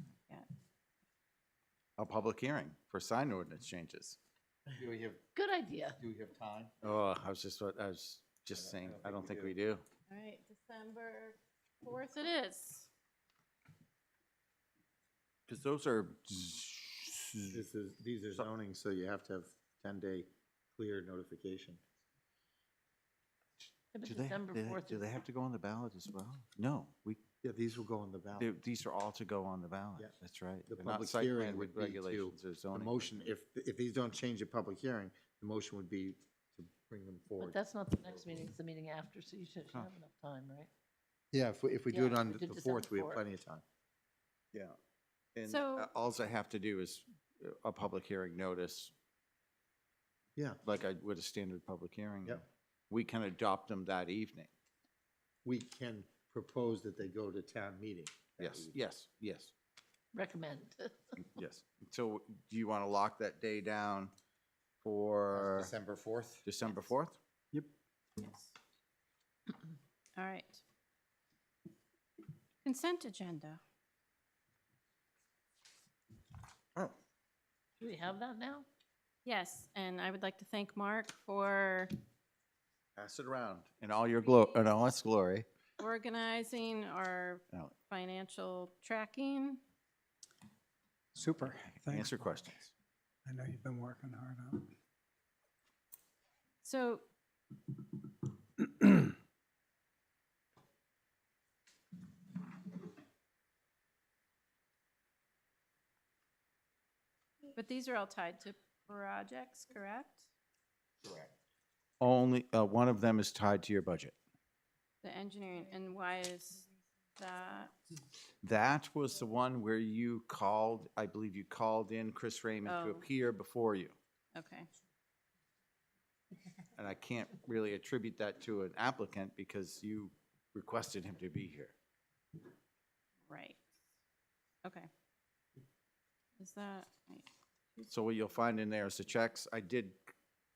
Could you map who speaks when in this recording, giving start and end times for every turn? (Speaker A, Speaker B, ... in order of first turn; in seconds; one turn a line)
Speaker A: 2.0-4.2
Speaker B: 4.8-5.2
Speaker C: 5.3-6.0
Speaker B: 6.0-6.7
Speaker A: 6.8-9.8
Speaker B: 8.6-9.6
Speaker D: 10.1-12.9
Speaker A: 15.5-17.7
Speaker B: 17.5-21.8
Speaker C: 23.9-25.1
Speaker A: 24.0-27.2
Speaker B: 27.4-28.5
Speaker A: 28.4-33.3
Speaker B: 30.7-38.2
Speaker C: 37.4-40.7
Speaker B: 41.3-43.6
Speaker C: 41.9-43.2
Speaker A: 45.4-48.9
Speaker D: 45.5-45.9
Speaker A: 50.6-54.5
Speaker B: 55.5-58.8
Speaker A: 58.4-59.5
Speaker C: 60.1-60.9
Speaker A: 61.2-64.1
Speaker A: 64.8-65.7
Speaker B: 65.3-66.5
Speaker A: 66.5-67.2
Speaker D: 68.2-68.5
Speaker D: 70.2-70.6
Speaker D: 72.6-73.6
Speaker C: 77.8-78.7
Speaker D: 79.2-81.9
Speaker A: 83.0-85.5
Speaker D: 84.2-84.7
Speaker D: 85.8-89.6
Speaker E: 91.2-92.5
Speaker A: 91.8-92.7
Speaker E: 93.3-94.7
Speaker D: 96.6-97.0
Speaker D: 107.5-110.3
Speaker B: 111.0-111.3
Speaker A: 112.0-114.2
Speaker D: 115.0-116.7
Speaker D: 117.2-117.8
Speaker A: 118.4-124.0
Speaker D: 122.7-123.1
Speaker D: 124.3-124.7
Speaker A: 126.8-131.7
Speaker D: 133.3-133.6
Speaker D: 134.6-134.9
Speaker D: 136.4-137.9
Speaker A: 137.9-140.1